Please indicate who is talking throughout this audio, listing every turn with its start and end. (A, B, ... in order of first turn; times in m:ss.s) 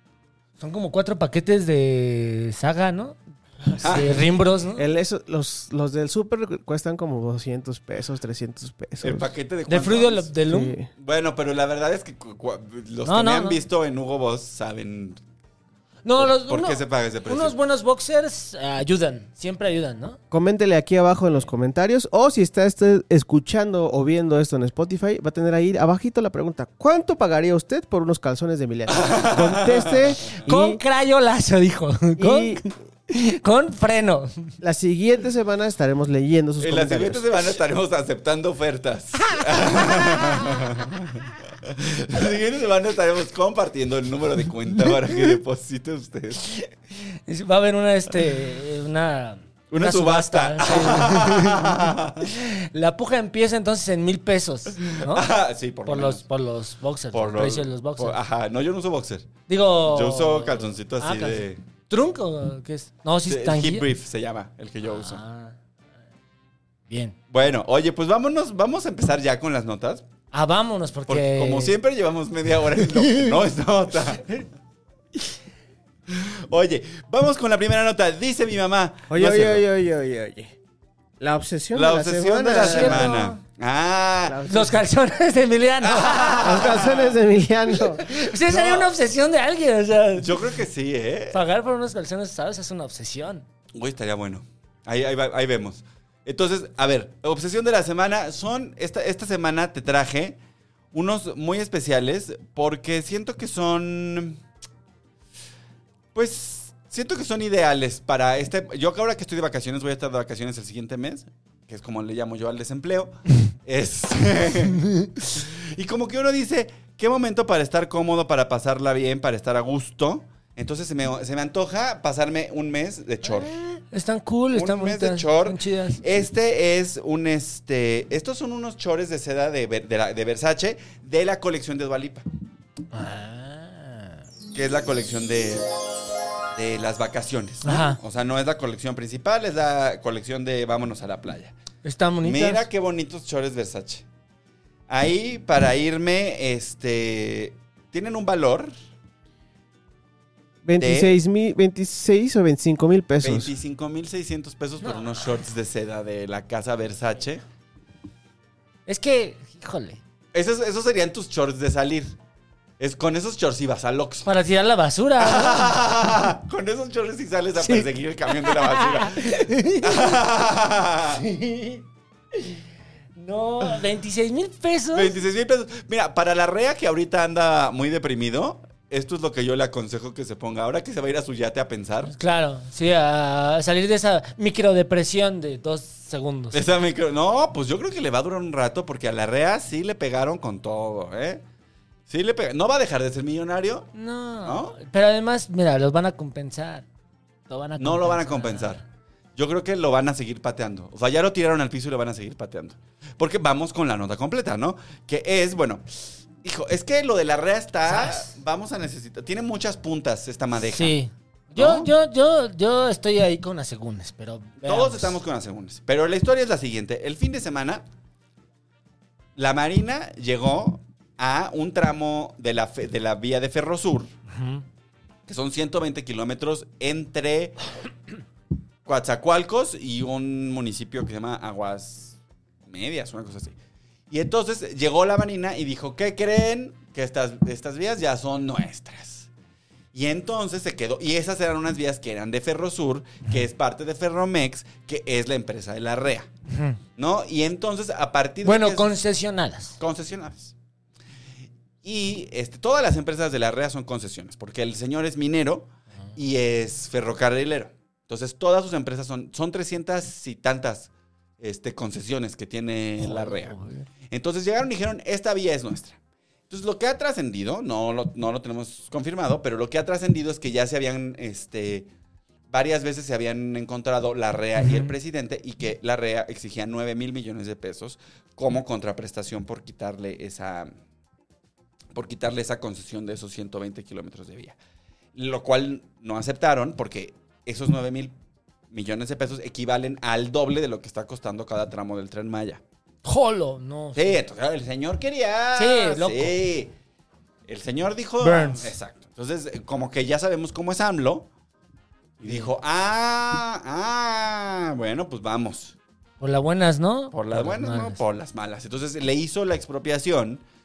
0:00.6-0:04.9 A
0:03.8-0:04.3 B
0:04.8-0:09.3 C
0:09.0-0:10.3 B
0:09.7-0:10.8 A
0:10.5-0:10.9 C
0:11.0-0:15.2 B
0:13.0-0:13.6 A
0:16.0-0:20.2 A
0:16.2-0:17.6 B
0:20.3-0:30.8 C
0:28.9-0:30.2 B
0:30.2-0:34.5 A
0:32.2-0:32.6 C
0:34.6-0:37.3 C
0:36.6-0:46.4 B
0:39.7-0:40.2 A
0:47.3-0:55.3 A
0:49.7-0:52.3 B
0:54.8-0:56.2 B
0:55.9-0:58.2 A
0:57.1-1:01.6 B
0:59.5-1:03.9 A
1:03.3-1:05.2 B
1:04.8-1:05.6 A
1:06.9-1:07.1 A
1:07.3-1:10.1 B
1:10.3-1:11.8 A
1:11.1-1:14.3 B
1:13.0-1:13.3 A
1:16.1-1:19.6 B
1:19.1-1:20.5 C
1:21.2-1:23.1 C
1:21.7-1:24.5 B
1:22.6-1:23.4 A
1:24.2-1:24.8 C
1:24.5-1:26.7 A
1:25.8-1:27.2 B
1:26.4-1:28.0 C
1:28.0-1:30.4 A
1:28.3-1:28.9 B
1:30.2-1:31.4 B
1:31.3-1:33.4 A
1:33.7-1:40.4 B
1:40.9-1:44.4 B
1:46.1-2:03.5 B
2:03.2-2:06.0 A
2:04.5-2:12.2 B
2:12.9-2:14.2 A
2:14.5-2:15.7 B
2:16.5-2:21.6 B
2:17.6-2:18.0 A
2:21.8-2:22.6 A
2:22.2-2:24.0 B
2:24.9-2:28.7 B
2:30.6-2:33.5 C
2:30.8-2:31.2 B
2:33.2-2:37.4 B
2:38.9-2:40.0 A
2:40.3-2:42.2 B
2:42.8-2:44.3 B
2:44.2-2:45.8 A
2:45.2-2:51.2 B
2:47.6-2:50.2 A
2:51.1-2:52.6 A
2:53.2-2:55.1 A
2:54.9-3:02.1 B
3:02.1-3:06.6 A
3:06.5-3:11.4 B
3:12.1-3:13.9 B
3:13.9-3:16.9 A
3:14.4-3:14.8 B
3:17.5-3:18.8 A
3:17.8-3:18.8 B
3:19.4-3:31.0 B
3:27.9-3:28.3 A
3:30.7-3:35.2 A
3:31.6-3:31.9 B
3:34.6-3:37.8 B
3:39.4-3:44.1 B
3:44.3-3:44.6 A
3:45.3-3:47.6 B
3:48.9-3:53.6 B
3:54.1-3:59.3 B
3:59.9-4:06.3 B
4:06.5-4:06.8 A
4:07.0-4:08.9 B
4:08.4-4:09.8 A
4:09.8-4:10.5 B
4:11.8-4:23.6 B
4:23.0-4:23.9 A
4:24.1-4:26.0 B
4:26.5-4:31.9 B
4:32.5-4:40.7 B
4:34.6-4:34.9 A
4:41.9-4:44.6 B
4:45.1-4:48.1 B
4:48.7-4:52.6 B
4:53.0-4:54.2 A
4:54.0-4:56.7 B
4:55.6-4:56.4 A
4:57.4-5:01.3 B
4:58.2-4:58.7 A
5:02.2-5:05.8 B
5:06.2-5:08.0 A
5:07.1-5:10.4 B